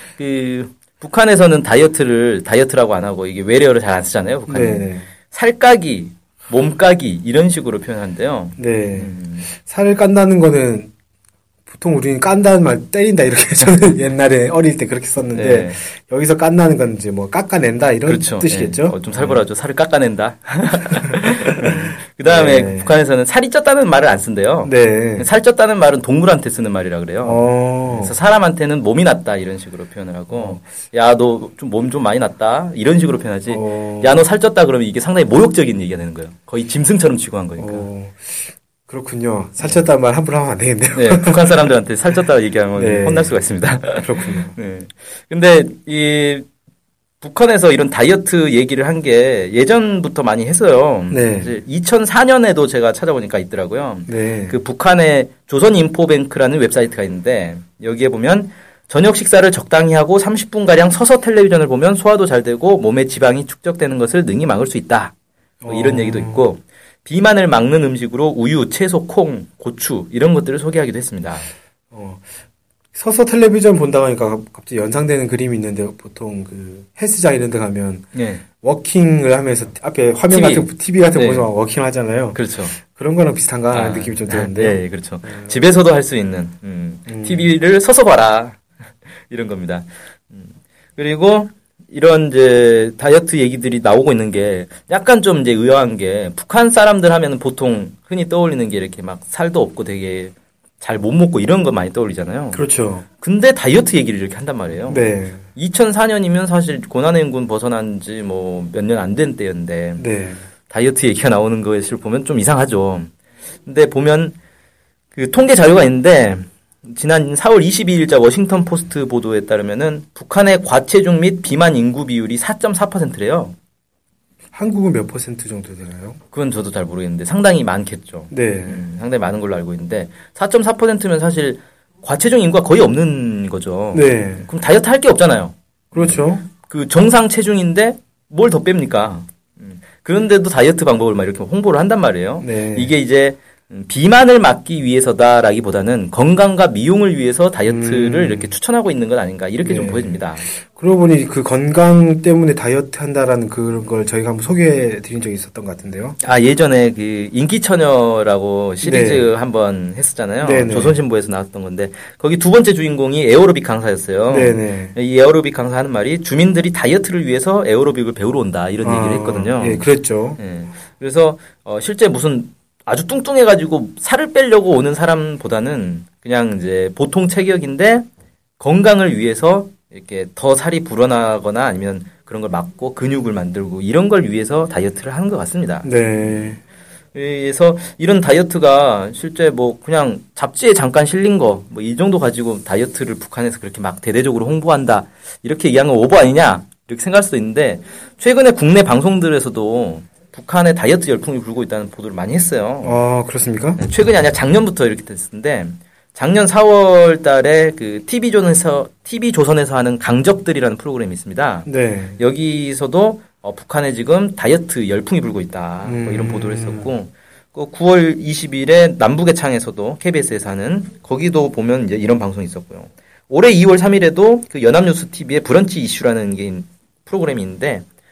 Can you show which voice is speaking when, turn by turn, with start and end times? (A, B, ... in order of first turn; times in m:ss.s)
0:00.2-0:09.5 A
0:04.5-0:05.1 B
0:08.6-0:10.9 B
0:11.7-0:19.4 B
0:15.3-0:15.8 A
0:18.0-0:37.9 A
0:21.1-0:22.9 B
0:24.6-0:25.3 B
0:27.2-0:28.2 B
0:30.3-0:30.6 B
0:33.5-0:34.2 B
0:37.6-0:41.7 B
0:39.6-0:39.8 A
0:40.9-0:46.4 A
0:42.8-0:44.5 B
0:47.2-1:05.1 A
0:51.1-0:51.5 B
0:54.1-0:54.6 B
1:05.6-1:06.5 B
1:05.7-1:11.5 A
1:11.9-1:12.3 B
1:12.9-1:18.0 B
1:18.1-1:18.4 A
1:18.6-1:25.6 B
1:20.3-1:21.5 A
1:22.3-1:22.8 A
1:23.7-1:28.6 A
1:27.1-1:27.5 B
1:29.3-1:42.6 A
1:42.5-1:43.0 B
1:43.2-1:50.0 A
1:44.9-1:45.4 B
1:50.0-1:50.4 B
1:50.7-1:53.1 A
1:53.6-1:54.4 A
1:55.1-2:03.5 A
2:04.5-2:06.2 B
2:06.3-2:30.4 A
2:08.3-2:08.8 B
2:13.9-2:14.5 B
2:15.9-2:16.5 B
2:22.4-2:22.9 B
2:27.6-2:28.5 B
2:29.6-2:36.2 B
2:36.2-2:58.0 A
2:38.8-2:39.3 B
2:40.4-2:41.0 B
2:44.3-2:45.0 B
2:48.8-2:50.4 B
2:58.6-3:06.5 A
3:05.8-3:06.6 B
3:07.1-3:23.0 A
3:22.8-3:23.8 B
3:23.8-3:47.8 A
3:31.6-3:32.2 B
3:35.8-3:36.9 B